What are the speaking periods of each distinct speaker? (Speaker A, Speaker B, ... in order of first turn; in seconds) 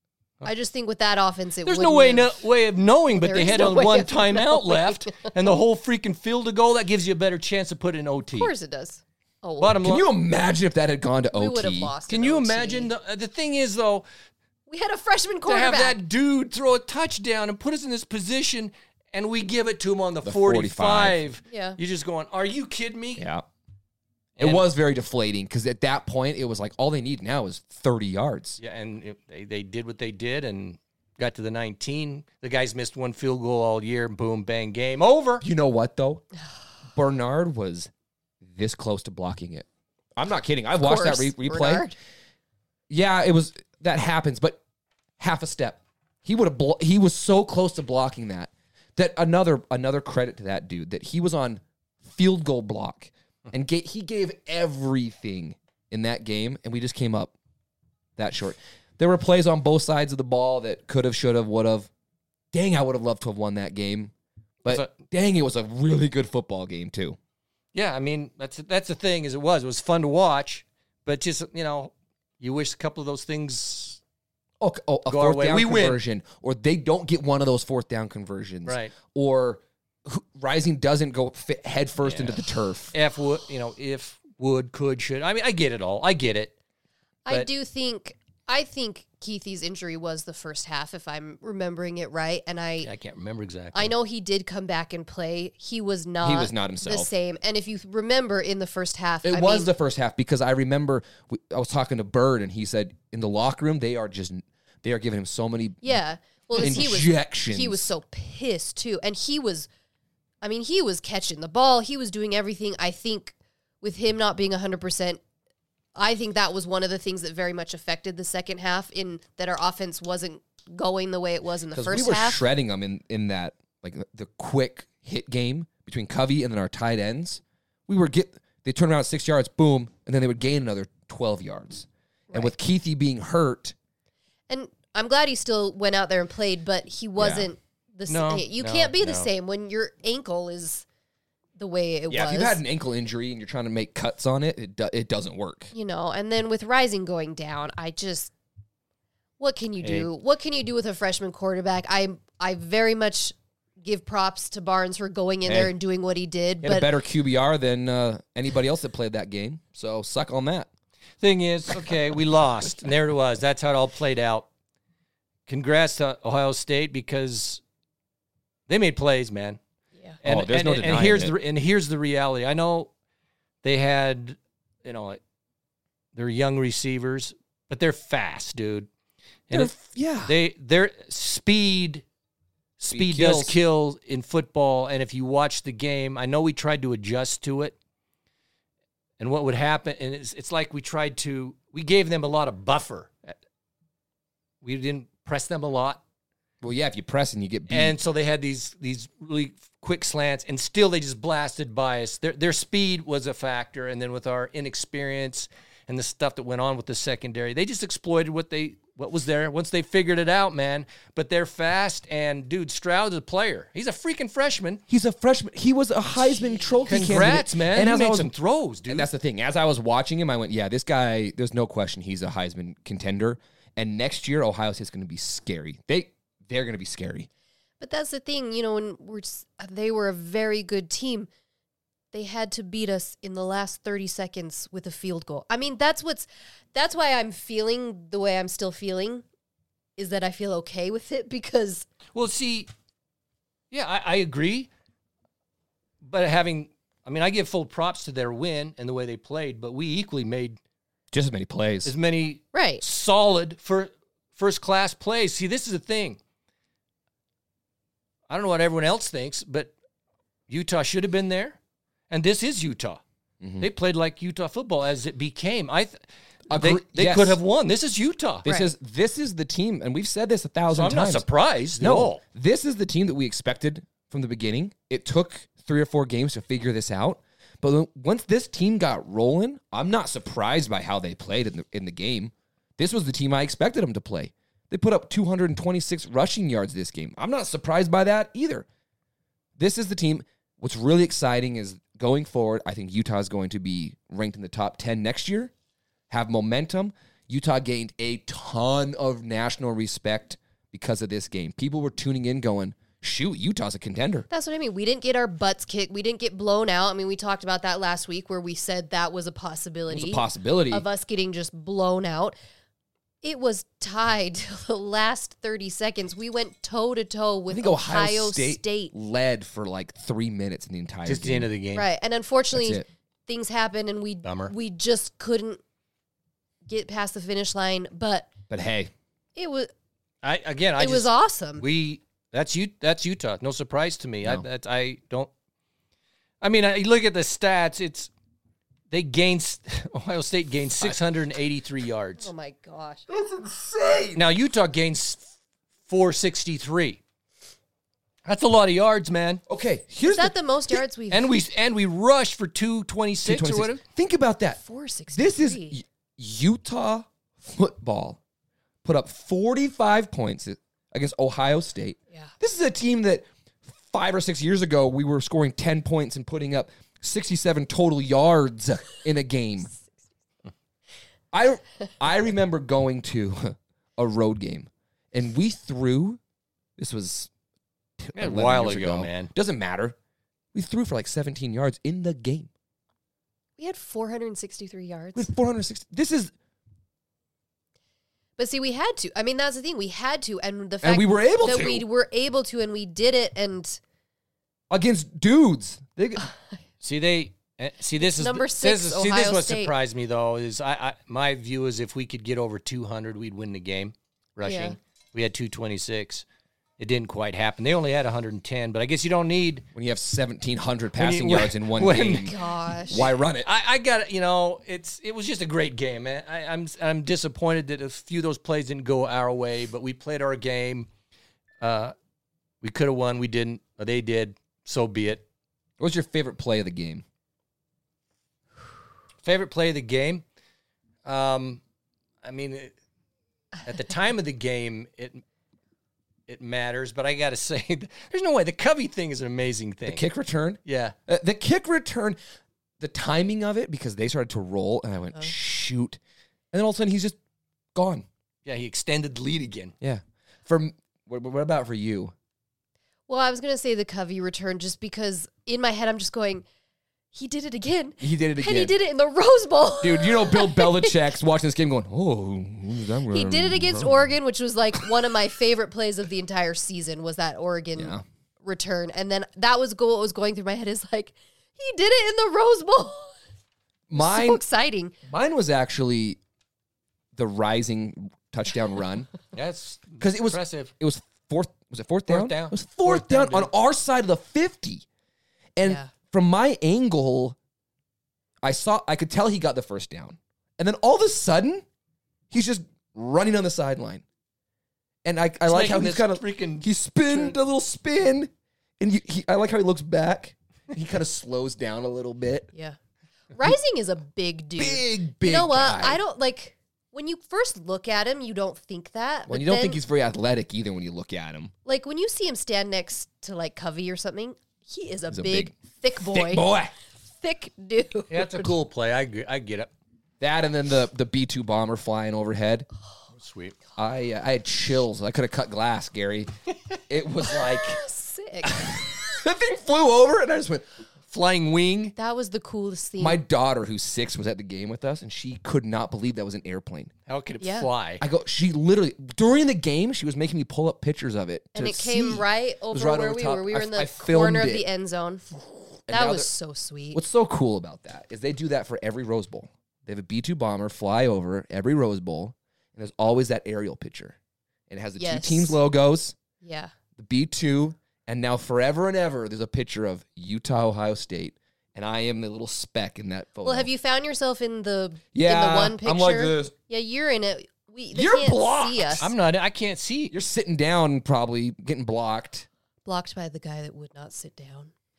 Speaker A: 0.4-2.4, 3.1-5.3, 8.3-9.8, 11.3-12.9, 14.7-16.0, 21.5-21.8, 40.8-42.0, 87.3-92.9, 93.7-99.7, 105.8-109.7, 110.4-115.2, 116.0-122.5, 134.5-140.8, 141.6-142.6, 145.7-148.3, 149.4-156.9, 216.2-217.2, 227.8-231.3, 232.1-239.2, 240.0-241.9, 252.5-252.8, 304.3-312.4, 313.2-318.9, 321.7-325.6, 326.7-328.3, 329.4-329.7, 330.8-331.6, 342.2-343.1, 350.0-351.4, 354.6-355.8, 383.6-385.3, 388.4-393.8, 398.0-399.7, 404.4-404.8, 412.2-413.1, 453.1-456.5, 457.1-461.0, 463.1-473.1, 473.9-474.9, 485.6-485.9, 503.3-509.8, 511.7-516.5, 517.2-518.5, 527.4-528.7, 532.0-533.2, 537.4-537.7, 541.5-545.3, 545.9-547.0, 555.0-555.6, 556.4-556.7, 563.4-569.1, 572.9-574.7
Speaker B: 1.6-8.5, 9.6-10.1, 12.1-14.1, 15.5-23.3, 24.4-24.7, 28.6-35.4, 64.7-64.9, 67.7-74.0, 75.1-76.0, 78.7-79.0, 82.0-82.4, 82.9-86.5, 92.8-93.9, 138.1-139.3, 149.8-150.1, 161.2-164.5, 165.5-167.6, 168.7-169.6, 170.2-172.9, 173.6-175.2, 176.2-178.9, 179.5-182.0, 182.8-187.8, 189.2-193.4, 194.6-196.0, 197.7-214.8, 216.9-219.1, 242.1-242.7, 243.7-244.7, 246.0-250.6, 251.8-256.2, 258.3-259.7, 260.5-261.6, 262.1-263.0, 263.6-268.5, 270.7-272.2, 321.1-321.9, 324.2-324.5, 330.2-335.3, 336.4-338.1, 338.9-342.3, 344.1-345.2, 345.9-347.0, 348.2-349.4, 351.1-353.8, 378.2-379.3, 396.8-406.2, 406.8-409.7, 411.0-420.9, 421.6-421.9, 422.6-425.2, 429.2-430.2, 431.1-431.6, 432.2-432.7, 433.6-435.2, 436.3-440.1, 440.6-440.9, 448.5-449.7, 479.3-480.7, 482.1-483.5, 495.5-496.7, 518.1-519.7, 523.1-523.6, 531.1-532.0, 537.1-538.0, 569.0-570.1
Speaker C: 9.8-11.9, 20.2-21.2, 23.2-23.5, 24.4-28.6, 35.4-36.2, 36.9-37.9, 38.4-41.9, 42.9-44.6, 45.2-57.3, 58.2-61.9, 62.5-64.1, 64.6-67.2, 74.6-82.9, 96.2-97.1, 99.2-106.0, 106.5-107.9, 121.8-133.8, 137.2-137.5, 142.1-145.7, 155.4-155.7, 156.6-160.7, 170.2-171.3, 179.5-180.4, 182.9-183.6, 196.6-198.0, 214.9-218.3, 218.9-227.3, 251.1-251.9, 263.4-263.7, 266.5-267.4, 268.4-271.2, 271.8-288.7, 289.6-295.5, 296.1-304.3, 309.9-310.9, 317.5-321.5, 322.5-322.9, 328.5-328.9, 343.1-344.2, 349.5-350.8, 353.2-354.6, 355.1-358.2, 358.8-369.7, 371.3-376.2, 376.8-377.3, 378.0-380.0, 380.5-382.5, 385.1-386.3, 390.8-391.9, 394.7-396.2, 409.8-412.3, 412.9-413.5, 425.8-427.0, 439.9-442.2, 442.8-446.0, 446.5-447.2, 447.8-448.1, 449.8-452.1, 458.0-458.7, 459.8-464.1, 467.8-468.0, 473.9-474.4, 475.1-476.2, 477.1-479.1, 480.0-484.9, 485.6-487.4, 488.4-491.6, 492.3-494.0, 495.1-502.5, 504.6-506.0, 509.3-511.5, 515.1-516.7, 520.2-522.7, 523.8-526.3, 526.9-527.8, 528.4-530.6, 533.0-536.9, 538.0-544.6, 545.9-546.3, 546.9-554.2, 554.7-556.2, 557.0-563.7, 565.1-566.5, 567.9-569.1, 570.1-572.5